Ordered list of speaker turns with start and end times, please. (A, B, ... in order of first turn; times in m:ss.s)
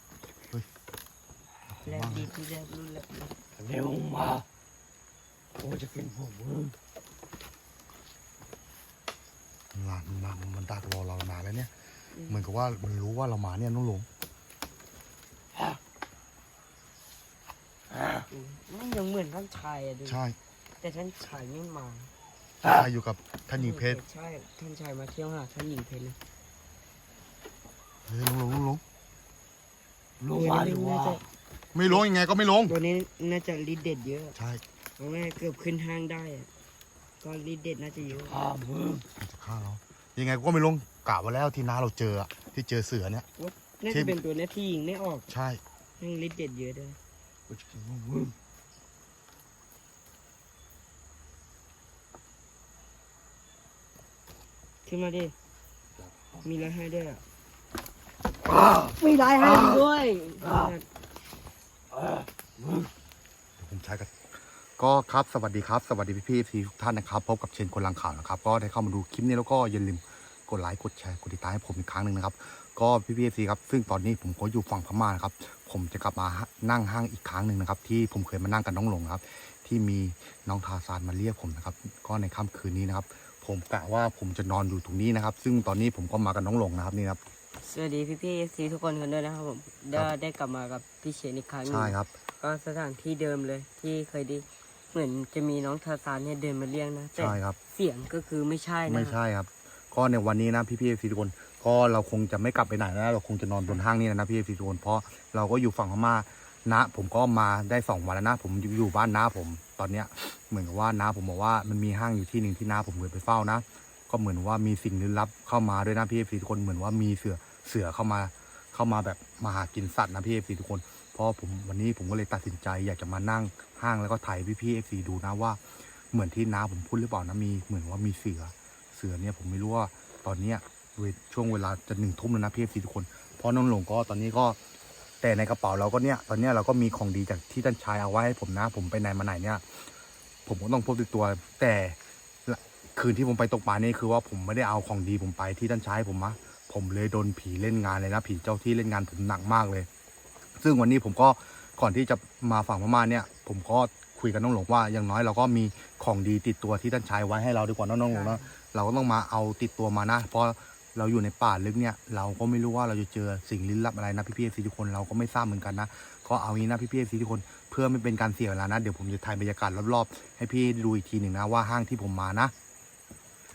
0:00.4-0:00.7 A
0:01.7-0:02.3 A
0:01.8-0:03.4 B
0:03.6-0:04.4 C
0:05.6-0:06.8 C
0:09.7-0:11.7 A
0:12.1-0:12.4 B
0:12.3-0:14.1 A
0:18.3-0:20.2 B
0:20.1-0:20.4 A
0:20.8-0:22.1 B
0:22.6-0:24.0 A
0:23.6-0:26.2 B
0:28.1-0:28.8 A
0:30.2-0:31.2 C
0:30.3-0:31.2 B
0:31.7-0:32.8 A
0:32.7-0:34.4 B
0:34.4-0:34.6 A
0:35.0-0:36.5 B
0:37.2-0:38.4 B
0:38.3-0:39.0 C
0:39.2-0:43.3 A
0:43.4-0:45.3 B
0:43.9-0:44.2 A
0:45.3-0:45.6 A
0:46.0-0:47.0 B
0:47.5-0:48.4 C
0:54.9-0:55.4 B
0:56.0-0:56.4 C
0:56.4-0:57.2 B
0:59.0-1:00.9 B
1:03.6-1:27.2 A
1:27.6-1:39.2 B
1:31.7-1:32.2 A
1:37.2-1:37.6 A
1:38.9-2:14.6 A
2:15.2-2:19.9 A
2:20.5-2:29.9 A
2:30.6-2:52.5 A
2:38.0-2:38.5 B